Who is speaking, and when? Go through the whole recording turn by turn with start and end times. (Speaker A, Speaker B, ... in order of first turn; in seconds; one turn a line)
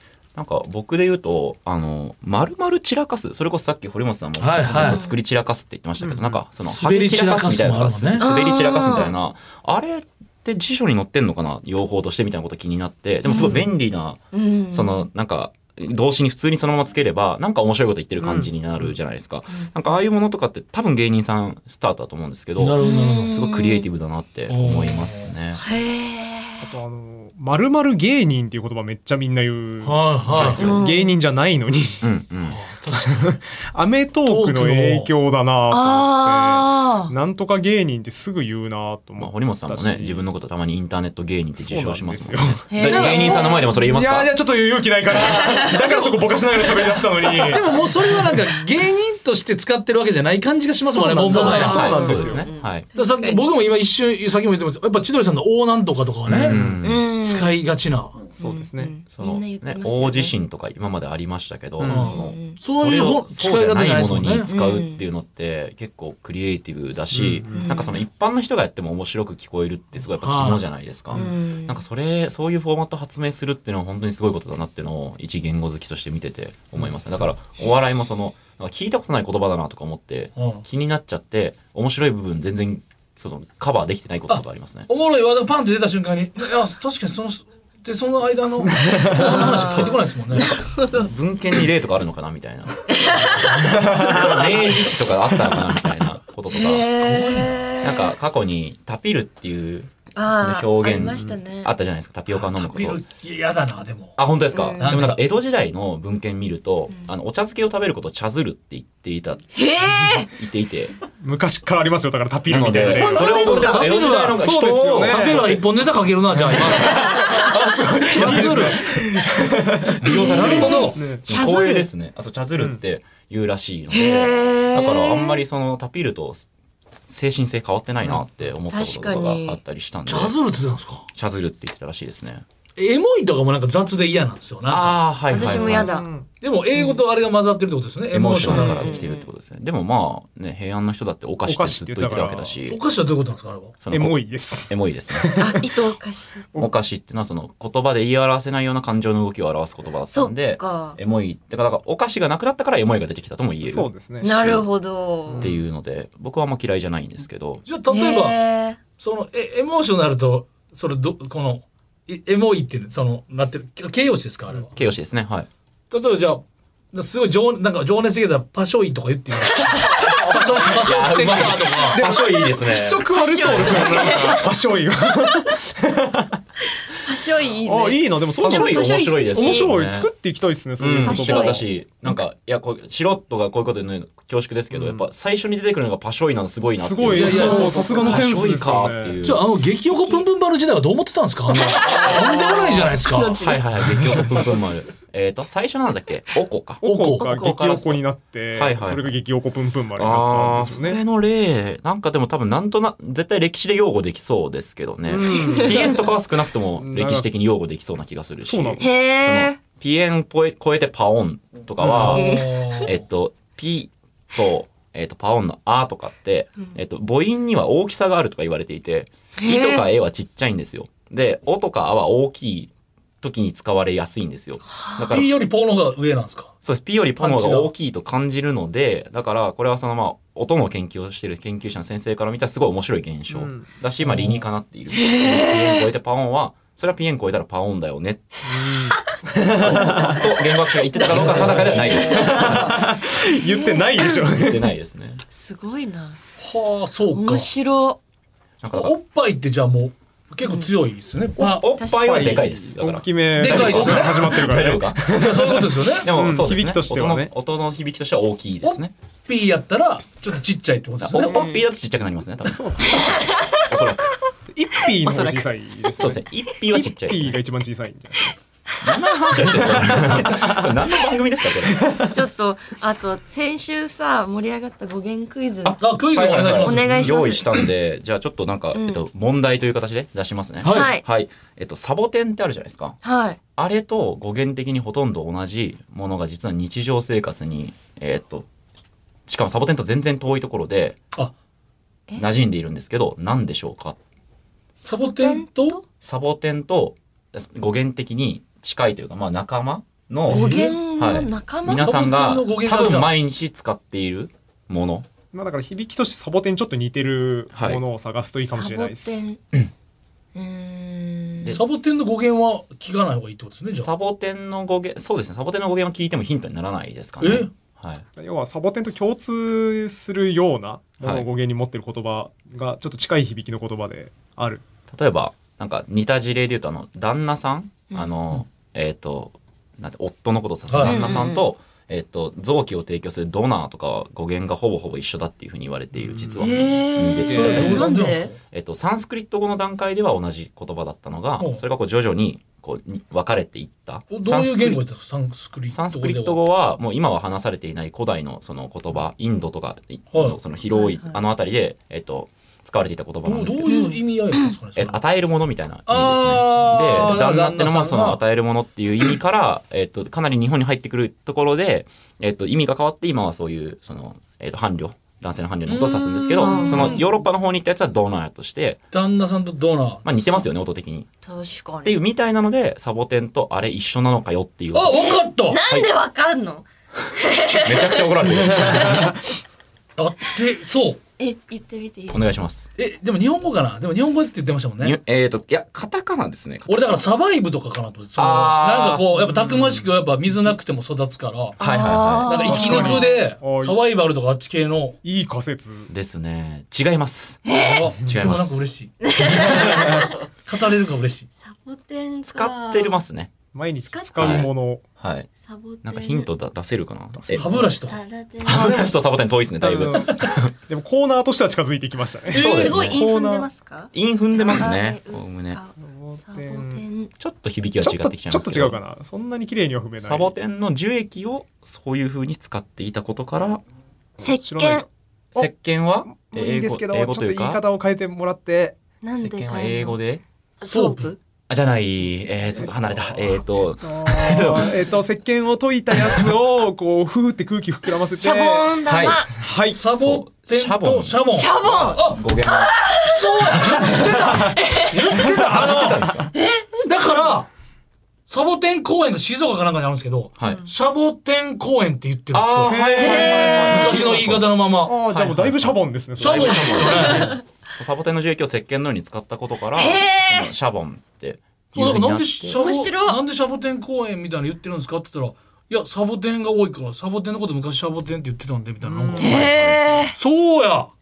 Speaker A: 0.3-25.6
Speaker B: 4.4-5.0
Speaker C: 4.8-5.1
Speaker D: 6.0-6.4
Speaker B: 6.6-8.3
Speaker C: 8.2-9.1
Speaker C: 13.3-13.7
Speaker C: 14.3-15.1
Speaker D: 18.2-18.9
Speaker B: 22.6-23.3
Speaker C: 22.8-23.9
Speaker B: 24.5-25.3
Speaker C: 25.6-26.7
Speaker D: 26.6-32.1
Speaker B: 29.8-30.6
Speaker A: 30.3-30.8
Speaker C: 30.5-31.2
Speaker A: 32.0-32.6
Speaker B: 32.5-33.3
Speaker D: 32.9-40.2
Speaker B: 34.3-35.1
Speaker C: 35.7-37.1
Speaker A: 39.2-44.3
Speaker D: 41.6-48.4
Speaker C: 42.7-43.9
Speaker C: 45.3-46.2
Speaker B: 47.4-52.3
Speaker D: 50.9-52.5
Speaker C: 51.3-53.4
Speaker A: 51.5-52.9
Speaker B: 52.9-56.6
Speaker A: 56.3-57.1
Speaker D: 56.4-56.8
Speaker C: 56.8-57.5
Speaker B: 57.2-58.2
Speaker D: 58.4-58.9
Speaker C: 58.4-60.3
Speaker A: 59.1-84.9
Speaker D: 61.8-62.3
Speaker B: 61.9-64.5
Speaker C: 62.1-62.6
Speaker C: 64.5-65.0
Speaker D: 67.1-67.8
Speaker C: 67.5-67.9
Speaker B: 70.2-70.6
Speaker C: 71.1-71.8
Speaker B: 80.4-80.7
Speaker B: 84.3-90.6
Speaker D: 88.8-89.4
Speaker C: 89.1-91.1
Speaker A: 89.5-90.0
Speaker A: 90.5-96.9
Speaker C: 92.9-94.6
Speaker D: 93.6-94.7
Speaker C: 96.5-98.2
Speaker B: 96.6-97.6
Speaker A: 97.8-103.0
Speaker C: 100.2-101.7
Speaker B: 102.3-104.2
Speaker A: 104.2-109.5
Speaker C: 104.5-105.0
Speaker B: 104.8-105.2
Speaker C: 109.5-110.3
Speaker A: 110.3-111.0
Speaker D: 111.2-113.7
Speaker A: 112.5-115.6
Speaker C: 112.7-113.9
Speaker B: 113.4-114.5
Speaker D: 114.2-115.5
Speaker B: 115.0-117.2
Speaker D: 116.3-121.3
Speaker C: 116.8-117.5
Speaker B: 118.1-118.9
Speaker A: 118.1-118.7
Speaker B: 120.0-121.0
Speaker C: 120.0-121.9
Speaker A: 120.2-126.5
Speaker C: 123.9-125.4
Speaker A: 127.0-130.4
Speaker D: 128.0-128.5
Speaker C: 128.7-129.6
Speaker B: 130.1-131.1
Speaker A: 131.1-132.4
Speaker B: 132.8-135.0
Speaker A: 134.7-135.9
Speaker C: 135.3-136.1
Speaker D: 135.4-136.3
Speaker B: 136.4-139.1
Speaker C: 136.7-137.0
Speaker A: 138.1-142.8
Speaker C: 138.5-139.3
Speaker D: 141.5-142.6
Speaker B: 142.7-143.8
Speaker A: 143.8-145.4
Speaker D: 143.9-145.7
Speaker C: 145.4-146.4
Speaker A: 146.6-154.7
Speaker C: 150.1-151.0
Speaker D: 153.7-154.5
Speaker C: 154.2-155.5
Speaker D: 155.3-155.6
Speaker A: 155.4-157.6
Speaker B: 157.7-158.4
Speaker C: 157.9-158.8
Speaker B: 159.0-164.7
Speaker A: 164.7-165.5
Speaker B: 165.9-172.0
Speaker C: 169.5-170.2
Speaker D: 170.3-176.4
Speaker A: 170.6-174.1
Speaker C: 173.1-174.6
Speaker C: 175.2-175.5
Speaker C: 176.9-179.7
Speaker D: 177.6-181.7
Speaker A: 178.4-180.1
Speaker A: 180.8-189.5
Speaker C: 181.0-181.7
Speaker D: 184.7-185.1
Speaker D: 186.8-189.2
Speaker B: 187.1-188.1
Speaker C: 187.2-188.3
Speaker B: 189.2-194.5
Speaker C: 189.9-190.2
Speaker C: 191.5-193.6
Speaker D: 192.1-192.5
Speaker A: 193.3-198.0
Speaker B: 196.8-197.3
Speaker D: 196.8-201.0
Speaker C: 197.2-197.5
Speaker A: 198.6-199.2
Speaker A: 199.9-225.3
Speaker D: 205.1-206.1
Speaker C: 205.4-205.9
Speaker D: 206.8-207.3
Speaker D: 208.4-208.9
Speaker C: 208.8-209.6
Speaker D: 211.8-212.2
Speaker B: 211.8-212.9
Speaker C: 212.1-212.9
Speaker C: 219.4-219.9
Speaker C: 224.7-225.1
Speaker B: 225.1-226.5
Speaker A: 226.6-238.4
Speaker B: 227.2-227.7
Speaker D: 233.3-234.4
Speaker C: 234.9-235.8
Speaker D: 238.4-240.3
Speaker A: 239.5-242.9
Speaker C: 239.6-240.2
Speaker C: 240.9-242.8
Speaker D: 241.1-244.7
Speaker B: 241.1-241.9
Speaker C: 243.4-244.2
Speaker A: 244.1-245.2
Speaker C: 245.3-246.2
Speaker B: 246.4-247.5
Speaker C: 247.1-248.0
Speaker A: 248.6-248.9
Speaker B: 248.7-251.7
Speaker C: 250.4-250.7
Speaker A: 251.4-255.3
Speaker C: 251.8-252.5
Speaker D: 251.9-257.3
Speaker B: 253.4-254.4
Speaker B: 255.1-256.1
Speaker A: 256.0-258.9
Speaker B: 258.6-261.4
Speaker A: 261.0-264.1
Speaker C: 261.2-261.6
Speaker D: 262.4-263.3
Speaker C: 262.9-263.6
Speaker D: 264.5-268.4
Speaker C: 265.0-266.0
Speaker A: 266.0-267.4
Speaker A: 268.8-272.0
Speaker C: 268.9-269.2
Speaker D: 269.4-270.7
Speaker D: 271.8-272.2
Speaker C: 272.1-275.8
Speaker A: 275.6-283.0
Speaker B: 275.8-277.1
Speaker C: 276.6-277.6
Speaker C: 278.7-279.0
Speaker B: 280.6-280.9
Speaker C: 280.7-281.0
Speaker C: 283.0-283.4
Speaker A: 283.6-288.5
Speaker A: 289.3-291.0
Speaker A: 292.2-294.0
Speaker C: 294.8-295.8
Speaker B: 294.9-295.8
Speaker A: 296.0-305.1
Speaker B: 300.3-300.8
Speaker C: 300.3-302.0
Speaker B: 301.8-303.1
Speaker D: 305.3-309.2
Speaker A: 307.5-307.8
Speaker C: 308.4-309.4
Speaker C: 310.4-311.6
Speaker B: 311.5-313.9
Speaker A: 313.8-318.0
Speaker B: 317.2-317.5
Speaker D: 318.2-324.6
Speaker A: 321.0-321.3
Speaker A: 324.9-338.0
Speaker B: 330.7-331.0
Speaker C: 330.8-331.5
Speaker D: 336.0-337.8
Speaker C: 336.4-338.3
Speaker B: 337.0-338.4
Speaker A: 338.5-344.8
Speaker B: 344.1-346.4
Speaker A: 345.7-353.8
Speaker B: 350.1-350.4
Speaker C: 350.7-351.2
Speaker B: 353.2-355.0
Speaker C: 353.7-354.5
Speaker A: 354.8-368.8
Speaker B: 355.9-358.2
Speaker B: 365.7-367.0
Speaker C: 366.3-367.1
Speaker B: 368.9-370.4
Speaker A: 370.0-371.1
Speaker C: 371.2-372.0
Speaker A: 371.8-375.1
Speaker B: 374.7-375.6
Speaker C: 375.0-379.3
Speaker A: 377.5-379.2
Speaker B: 380.0-381.0
Speaker C: 381.2-382.4
Speaker A: 382.1-382.7
Speaker B: 382.8-385.0
Speaker A: 384.8-386.9
Speaker B: 386.7-391.6
Speaker A: 388.1-389.1
Speaker D: 389.3-389.9
Speaker A: 391.6-393.1
Speaker C: 391.6-393.1
Speaker B: 392.2-395.0
Speaker D: 392.4-393.8
Speaker D: 395.0-395.9
Speaker A: 395.9-397.5
Speaker C: 397.4-397.9
Speaker B: 397.5-401.3
Speaker A: 398.0-398.6
Speaker C: 399.0-400.1
Speaker A: 399.5-399.9
Speaker C: 401.4-403.0
Speaker A: 402.3-403.3
Speaker D: 403.5-404.8
Speaker C: 403.9-404.5
Speaker A: 404.2-405.3
Speaker C: 405.4-406.3
Speaker A: 405.8-407.5
Speaker D: 407.2-407.6
Speaker B: 407.3-408.0
Speaker C: 407.9-409.0
Speaker A: 408.4-410.5
Speaker D: 409.6-413.5
Speaker C: 412.3-417.1
Speaker A: 412.3-413.0
Speaker B: 412.4-412.6
Speaker A: 413.9-415.6
Speaker D: 415.8-416.8
Speaker A: 417.2-418.8
Speaker D: 417.8-420.3
Speaker A: 420.0-423.6
Speaker C: 424.2-424.9
Speaker D: 424.2-425.5
Speaker A: 425.4-427.6
Speaker D: 426.1-428.8
Speaker C: 429.0-430.0
Speaker A: 429.2-430.2
Speaker C: 430.6-431.2
Speaker B: 430.6-431.1
Speaker A: 431.5-434.9
Speaker D: 433.8-438.7
Speaker C: 438.2-439.3
Speaker A: 438.8-442.7
Speaker D: 439.3-439.8
Speaker B: 439.7-442.2
Speaker C: 441.3-445.2
Speaker B: 443.0-446.1
Speaker D: 443.9-444.5
Speaker A: 445.2-446.3
Speaker D: 445.2-446.3
Speaker C: 446.3-447.4
Speaker B: 446.8-447.5
Speaker B: 448.3-452.8
Speaker A: 450.4-450.7
Speaker C: 450.4-450.7
Speaker A: 452.3-454.5
Speaker D: 452.7-454.2
Speaker C: 453.0-454.0
Speaker B: 453.7-454.9
Speaker D: 454.8-457.0
Speaker A: 455.1-462.6
Speaker B: 456.2-457.4
Speaker C: 456.9-457.4
Speaker C: 459.7-460.5
Speaker B: 461.7-469.5
Speaker C: 462.5-463.2
Speaker D: 468.8-469.4
Speaker C: 469.2-470.2
Speaker A: 469.2-470.1
Speaker B: 470.1-470.9